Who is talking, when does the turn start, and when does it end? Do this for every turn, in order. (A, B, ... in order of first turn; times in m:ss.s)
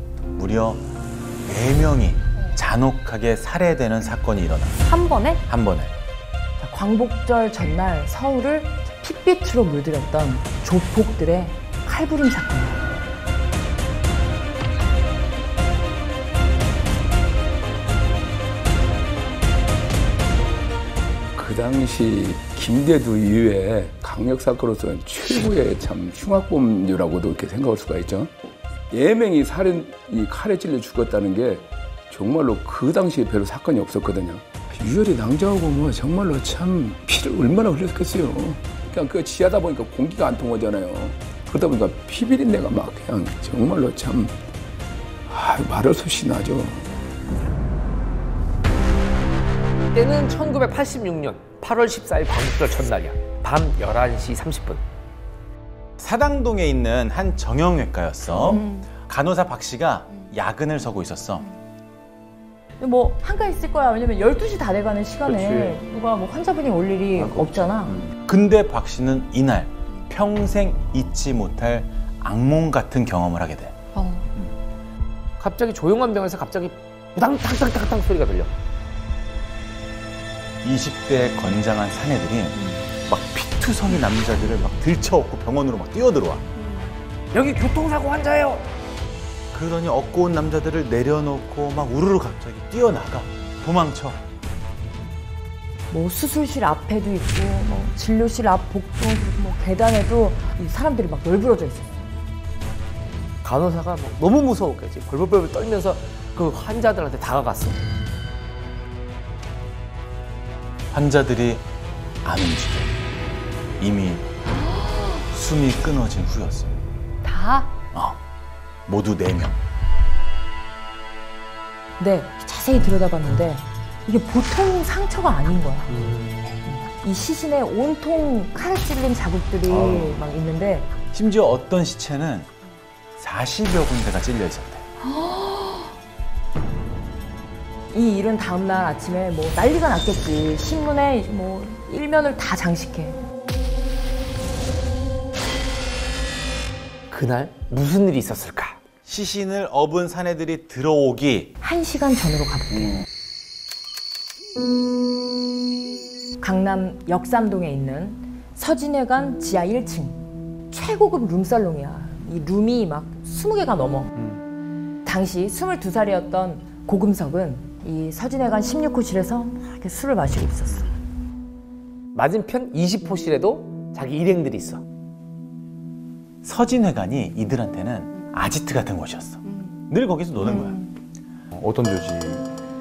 0:00.4-0:00.8 A
0:01.4-0:04.8 A
0:04.9-0:05.2 B
0:05.5-0:05.9 A
0:06.6-0:12.8 B
0:21.4-0:28.3 C
0:28.9-0:44.4 C
0:45.3-0:46.9 C
0:49.9-0:54.8 D
0:56.0-1:01.5 A
1:02.8-1:08.0 B
1:05.3-1:05.8 E
1:07.2-1:07.9 E
1:08.2-1:13.8 A
1:15.4-1:18.5 D
1:20.6-1:26.4 A
1:27.3-1:28.7 D
1:29.5-1:34.2 A
1:35.9-1:41.9 B
1:43.4-1:47.8 D
1:50.9-1:51.7 A
1:52.2-1:52.9 A
1:53.8-1:54.3 A
1:55.3-1:56.8 A
1:57.2-1:57.7 B
1:57.9-1:58.2 A
1:58.9-1:59.6 A
2:02.0-2:06.1 B
2:06.7-2:10.9 B
2:09.7-2:10.2 E
2:11.1-2:12.5 A
2:13.2-2:14.8 A
2:15.1-2:15.9 B
2:17.9-2:23.2 B
2:27.1-2:28.8 D
2:29.1-2:31.6 A
2:31.6-2:33.0 B
2:36.4-2:44.3 B
2:45.0-2:51.0 B
2:52.2-2:54.8 D
2:56.4-3:00.9 A
3:01.5-3:02.5 E